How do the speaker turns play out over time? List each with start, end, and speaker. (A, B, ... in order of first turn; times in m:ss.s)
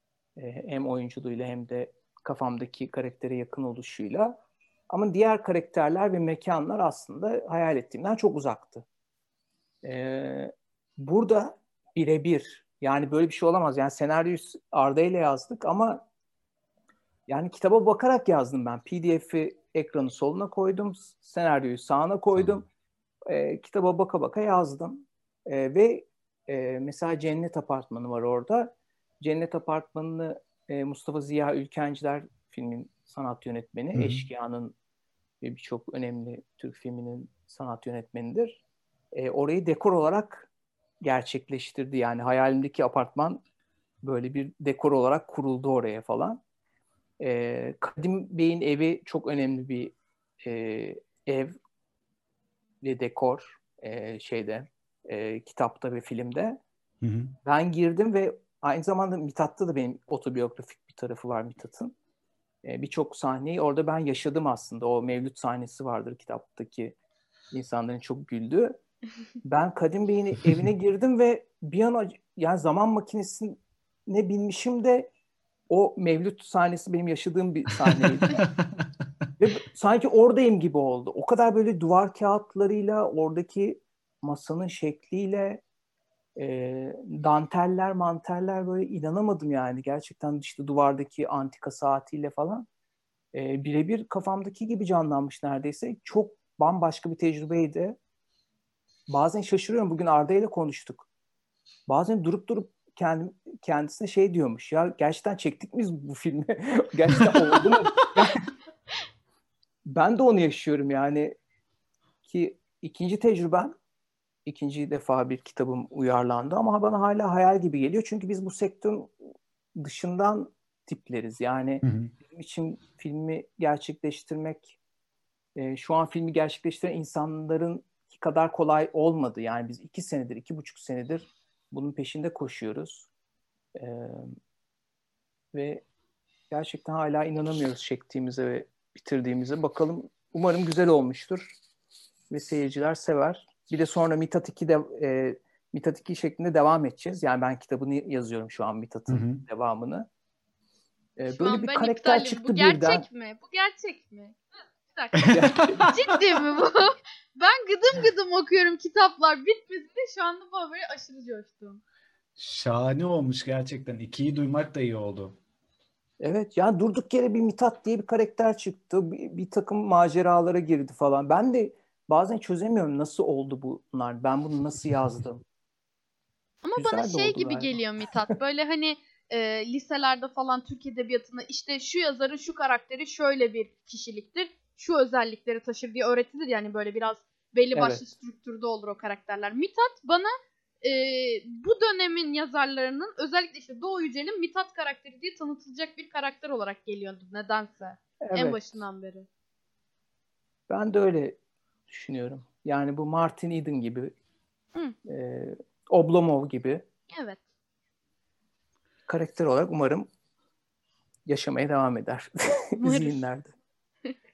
0:00.4-0:04.4 A
0:04.9-0:08.8 A
0:09.8-0:16.0 A
0:17.3-0:22.6 A
0:22.3-0:22.6 B
0:23.3-0:34.7 A
0:33.9-0:34.2 B
0:35.4-0:38.6 A
0:39.1-0:40.5 A
0:41.0-0:43.4 A
0:44.0-0:46.4 A
0:47.2-0:51.5 A
0:52.8-0:56.6 A
0:57.0-0:57.3 B
0:57.4-1:01.9 A
1:02.6-1:07.0 A
1:07.5-1:08.8 A
1:09.4-1:15.1 A
1:15.7-1:18.4 A
1:17.9-1:18.8 B
1:19.4-1:25.6 A
1:26.4-1:32.6 A
1:33.3-1:38.0 A
1:39.1-1:41.1 A
1:41.9-1:48.4 A
1:49.8-1:51.4 A
1:52.2-1:53.7 A
1:54.4-1:59.1 A
1:59.7-2:04.8 A
2:01.8-2:02.1 B
2:05.5-2:13.1 A
2:13.7-2:14.3 A
2:15.5-2:15.8 A
2:16.5-2:21.6 A
2:22.3-2:30.1 A
2:29.1-2:29.4 B
2:31.2-2:33.0 A
2:31.3-2:41.8 C
2:35.2-2:36.2 B
2:35.3-2:35.8 A
2:42.4-2:45.4 B
2:46.2-2:55.4 A
2:56.6-3:19.3 C
2:56.8-2:58.4 A
3:07.7-3:08.1 A
3:18.2-3:18.8 A
3:20.7-3:24.1 A
3:25.0-3:26.8 A
3:27.1-3:27.4 C
3:29.1-3:30.1 A
3:31.2-3:33.5 A
3:32.8-3:33.2 C